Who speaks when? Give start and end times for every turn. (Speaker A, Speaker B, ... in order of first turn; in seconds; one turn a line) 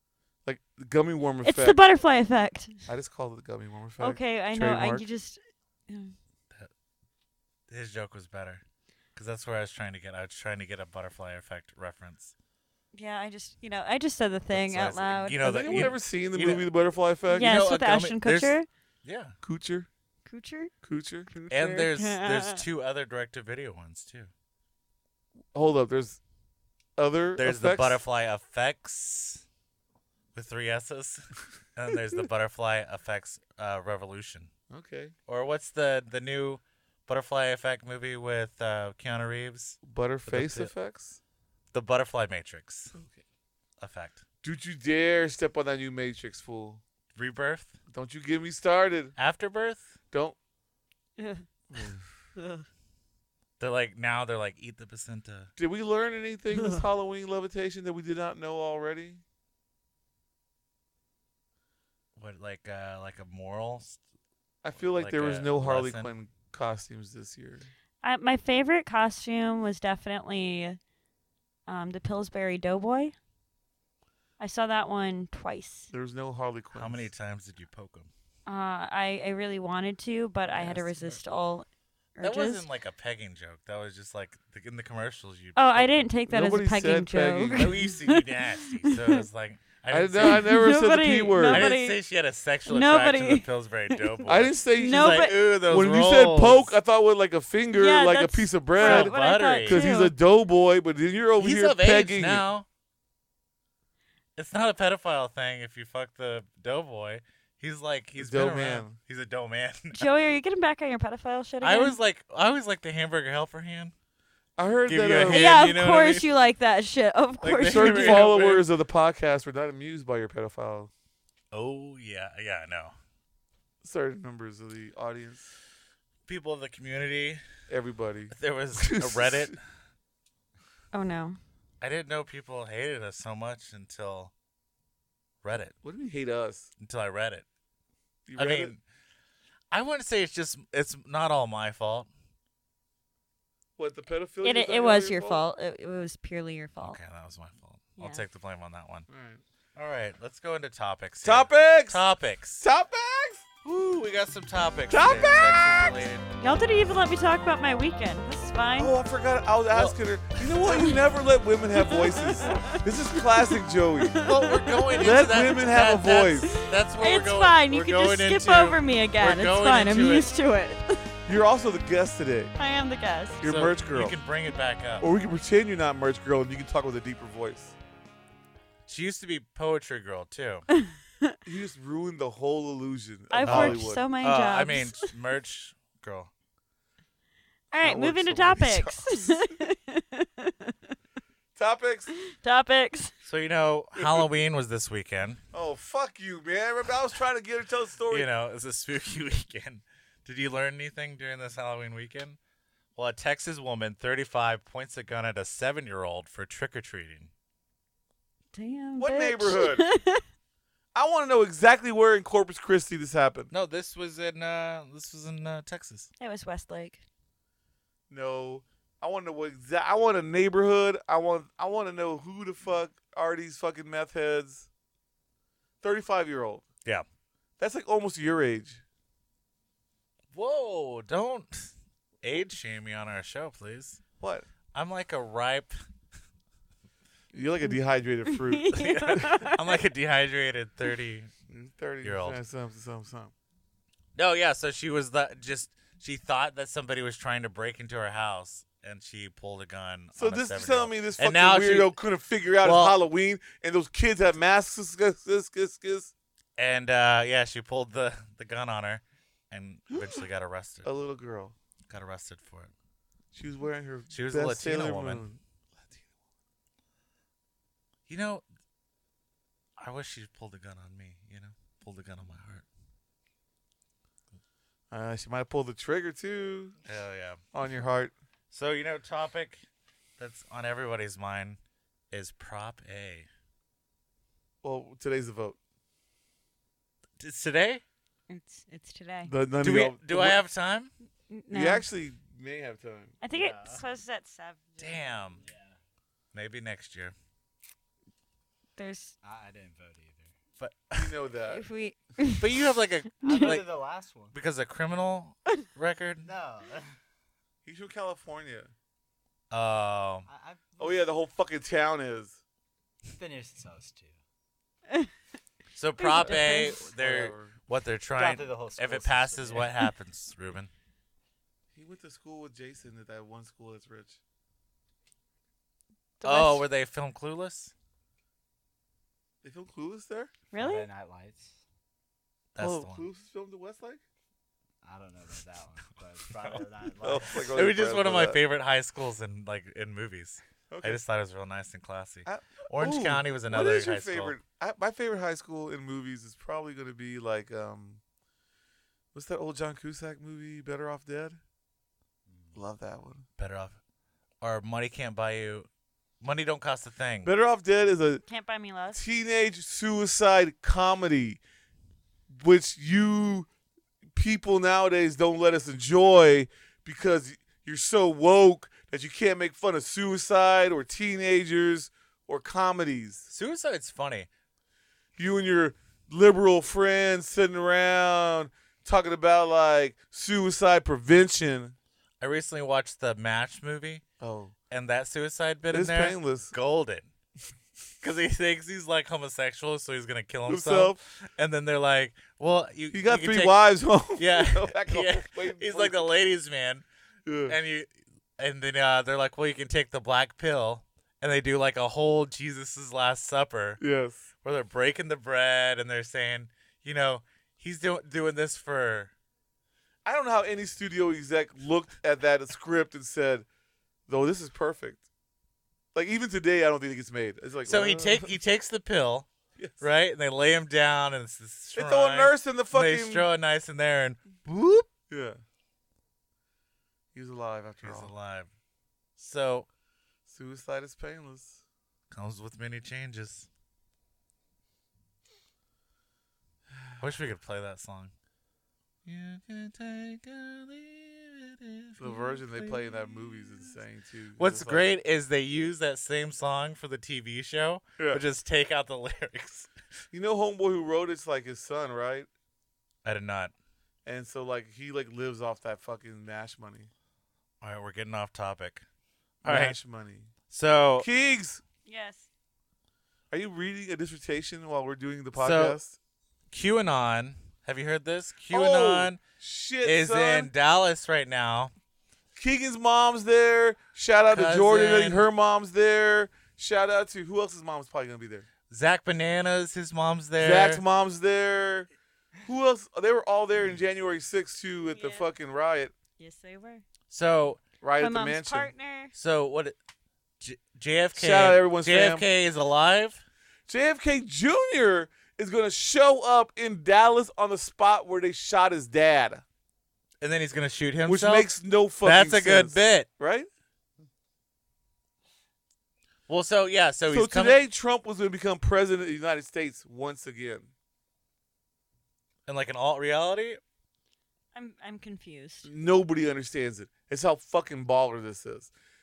Speaker A: 0.5-1.8
Speaker B: 1.4-2.9
Speaker A: 2.9-5.1
Speaker B: 4.0-6.2
Speaker C: 7.7-8.6
Speaker C: 9.2-12.3
Speaker B: 12.9-15.4
Speaker C: 14.5-16.7
Speaker A: 15.4-17.6
Speaker B: 17.3-18.7
Speaker C: 17.4-19.4
Speaker A: 19.4-19.9
Speaker B: 20.3-20.7
Speaker A: 20.8-21.3
Speaker B: 21.3-22.6
Speaker C: 21.5-24.3
Speaker A: 25.5-26.2
Speaker A: 27.0-28.0
Speaker C: 27.4-29.4
Speaker C: 30.3-34.5
Speaker A: 34.7-35.1
Speaker C: 35.3-40.7
Speaker A: 39.8-41.2
Speaker C: 41.7-42.9
Speaker A: 42.9-43.2
Speaker C: 43.8-44.2
Speaker A: 44.4-46.8
Speaker C: 47.1-47.8
Speaker A: 47.9-49.1
Speaker C: 49.2-50.0
Speaker B: 51.2-51.5
Speaker A: 51.7-52.1
Speaker B: 52.4-52.7
Speaker C: 53.6-55.5
Speaker A: 55.6-59.2
Speaker C: 62.2-64.0
Speaker A: 64.6-67.7
Speaker C: 64.8-66.1
Speaker B: 68.0-70.8
Speaker B: 71.7-73.2
Speaker B: 74.4-75.9
Speaker A: 75.9-77.1
Speaker C: 76.8-78.1
Speaker B: 78.5-81.7
Speaker A: 80.6-81.2
Speaker B: 82.2-82.6
Speaker C: 82.2-85.9
Speaker B: 85.6-89.2
Speaker A: 86.3-87.8
Speaker C: 87.5-90.5
Speaker A: 89.9-91.7
Speaker B: 90.2-92.0
Speaker C: 91.4-96.8
Speaker B: 92.7-94.2
Speaker A: 94.3-102.5
Speaker B: 94.8-95.4
Speaker B: 97.8-100.2
Speaker C: 98.8-99.8
Speaker C: 101.4-102.7
Speaker C: 104.4-110.0
Speaker A: 108.2-109.0
Speaker B: 109.9-112.0
Speaker C: 111.6-113.9
Speaker A: 114.6-115.5
Speaker C: 114.9-116.3
Speaker B: 115.2-118.3
Speaker C: 117.4-118.7
Speaker A: 117.6-120.9
Speaker C: 121.5-123.0
Speaker A: 123.8-125.5
Speaker C: 126.3-127.4
Speaker A: 127.7-129.6
Speaker C: 128.3-129.6
Speaker B: 130.9-131.4
Speaker C: 131.8-134.3
Speaker C: 135.4-135.8
Speaker A: 135.8-136.7
Speaker C: 136.8-137.5
Speaker A: 138.3-138.7
Speaker C: 138.4-138.8
Speaker C: 139.7-142.1
Speaker A: 143.8-145.4
Speaker B: 144.4-147.0
Speaker C: 146.8-149.1
Speaker B: 148.0-148.2
Speaker A: 149.1-149.4
Speaker C: 149.8-152.7
Speaker A: 151.2-152.1
Speaker A: 152.6-153.5
Speaker C: 153.6-156.3
Speaker A: 154.9-156.1
Speaker B: 156.4-158.9
Speaker A: 158.8-164.2
Speaker C: 159.7-160.5
Speaker B: 160.7-160.9
Speaker B: 161.8-162.8
Speaker B: 164.0-165.3
Speaker C: 164.2-170.3
Speaker A: 165.0-166.5
Speaker B: 166.5-171.0
Speaker A: 171.3-172.5
Speaker B: 172.6-173.4
Speaker A: 173.4-174.2
Speaker C: 173.4-175.1
Speaker A: 175.0-177.8
Speaker C: 178.9-180.7
Speaker B: 180.8-181.4
Speaker A: 181.4-184.1
Speaker B: 183.3-185.1
Speaker C: 183.4-186.3
Speaker B: 187.7-190.8
Speaker A: 187.8-189.6
Speaker A: 191.6-192.1
Speaker B: 192.2-193.1
Speaker C: 193.2-195.4
Speaker A: 194.0-194.3
Speaker A: 195.5-198.3
Speaker C: 198.1-202.4
Speaker C: 203.0-207.3
Speaker B: 208.5-210.2
Speaker A: 209.0-209.8
Speaker A: 210.9-213.5
Speaker C: 213.5-216.1
Speaker B: 216.2-217.1
Speaker A: 218.1-224.7
Speaker A: 225.8-226.7
Speaker A: 227.6-228.8
Speaker C: 230.3-234.0
Speaker A: 234.2-234.5
Speaker C: 234.7-235.7
Speaker A: 237.3-238.7
Speaker B: 238.3-239.8
Speaker C: 238.7-241.3
Speaker A: 241.5-243.3
Speaker C: 242.0-242.4
Speaker C: 244.2-251.9
Speaker A: 250.2-256.1
Speaker C: 252.6-253.0
Speaker C: 256.6-260.9
Speaker A: 259.9-260.2
Speaker A: 260.8-261.6
Speaker C: 261.9-262.7
Speaker A: 263.3-266.1
Speaker C: 264.1-265.3
Speaker C: 268.1-268.4
Speaker C: 269.8-272.6
Speaker A: 274.9-276.8
Speaker C: 276.9-277.4
Speaker A: 277.5-278.1
Speaker C: 278.5-279.6
Speaker C: 280.2-281.6
Speaker C: 282.1-283.3
Speaker A: 284.6-285.6
Speaker C: 287.2-287.8
Speaker B: 288.3-289.3
Speaker A: 289.3-290.4
Speaker C: 289.6-290.9
Speaker B: 291.3-291.9
Speaker A: 291.5-293.2
Speaker B: 293.2-295.2
Speaker D: 293.3-293.9
Speaker C: 294.8-295.4
Speaker D: 295.4-295.8
Speaker C: 296.3-297.1
Speaker B: 298.8-299.1
Speaker D: 299.2-300.4
Speaker C: 300.6-301.1
Speaker A: 300.9-301.6
Speaker B: 301.5-302.5
Speaker C: 302.4-303.8
Speaker B: 303.2-303.6
Speaker D: 303.2-304.4
Speaker C: 304.3-306.3
Speaker D: 306.2-306.9
Speaker A: 307.6-308.7
Speaker C: 309.5-310.3
Speaker D: 310.3-311.0
Speaker A: 310.8-312.4
Speaker D: 313.1-314.2
Speaker C: 315.8-320.7
Speaker B: 316.0-316.8
Speaker A: 316.8-317.6
Speaker D: 318.2-319.8
Speaker A: 321.7-324.2
Speaker B: 326.2-326.7
Speaker C: 326.2-327.7
Speaker A: 329.4-330.3
Speaker B: 330.5-330.9
Speaker D: 330.6-331.6
Speaker C: 332.5-333.1
Speaker A: 332.6-334.0
Speaker D: 334.8-337.5
Speaker A: 337.0-338.4
Speaker C: 337.4-344.4
Speaker A: 340.7-341.0
Speaker A: 342.3-348.0
Speaker A: 349.1-351.4
Speaker D: 352.3-352.6
Speaker A: 352.5-353.3
Speaker C: 353.4-353.8
Speaker C: 354.4-355.7
Speaker C: 356.2-357.3
Speaker A: 357.2-358.2
Speaker B: 358.3-359.0
Speaker A: 358.9-361.4
Speaker A: 362.3-363.5
Speaker A: 364.1-373.3
Speaker C: 373.3-374.3
Speaker A: 375.2-381.8
Speaker C: 382.2-384.0
Speaker A: 384.2-384.6
Speaker C: 384.7-387.1
Speaker A: 385.7-386.5
Speaker C: 388.0-393.6
Speaker A: 390.5-391.0
Speaker A: 392.9-396.1
Speaker C: 394.2-396.8
Speaker A: 397.2-397.6
Speaker C: 397.5-403.8
Speaker A: 403.8-404.3
Speaker C: 404.4-409.1
Speaker A: 410.1-413.5
Speaker A: 414.1-415.1
Speaker A: 415.9-418.4
Speaker C: 417.7-419.3
Speaker A: 419.6-419.9
Speaker C: 419.8-424.9
Speaker A: 421.7-423.3
Speaker A: 425.1-425.4
Speaker A: 427.1-428.1
Speaker C: 427.8-428.5
Speaker C: 429.2-429.7
Speaker A: 430.3-431.6
Speaker C: 432.1-433.5
Speaker C: 437.0-438.1
Speaker C: 439.1-443.7
Speaker A: 442.0-444.9
Speaker C: 444.4-449.7
Speaker A: 450.1-452.3
Speaker C: 453.0-453.5
Speaker A: 454.1-456.9
Speaker C: 457.6-458.9
Speaker C: 459.4-459.8
Speaker A: 459.4-460.3
Speaker C: 460.5-461.1
Speaker A: 461.0-461.6
Speaker B: 461.9-462.3
Speaker A: 463.3-466.0
Speaker C: 465.4-465.8
Speaker C: 466.5-469.2
Speaker A: 468.5-470.5
Speaker C: 469.8-471.7
Speaker A: 472.4-478.5
Speaker C: 474.3-475.3
Speaker C: 478.7-480.8
Speaker A: 480.4-481.9
Speaker A: 482.4-485.9
Speaker B: 484.9-485.3
Speaker B: 486.2-486.8
Speaker C: 487.1-487.6
Speaker A: 487.8-488.7
Speaker B: 488.0-489.1
Speaker C: 489.1-489.8
Speaker C: 490.4-493.2
Speaker A: 491.1-492.3
Speaker A: 493.7-499.4
Speaker C: 500.2-501.5
Speaker A: 501.1-503.5
Speaker C: 502.0-503.1
Speaker C: 506.3-507.6
Speaker A: 507.1-510.7
Speaker C: 512.5-513.6
Speaker B: 514.5-515.7
Speaker A: 515.6-518.7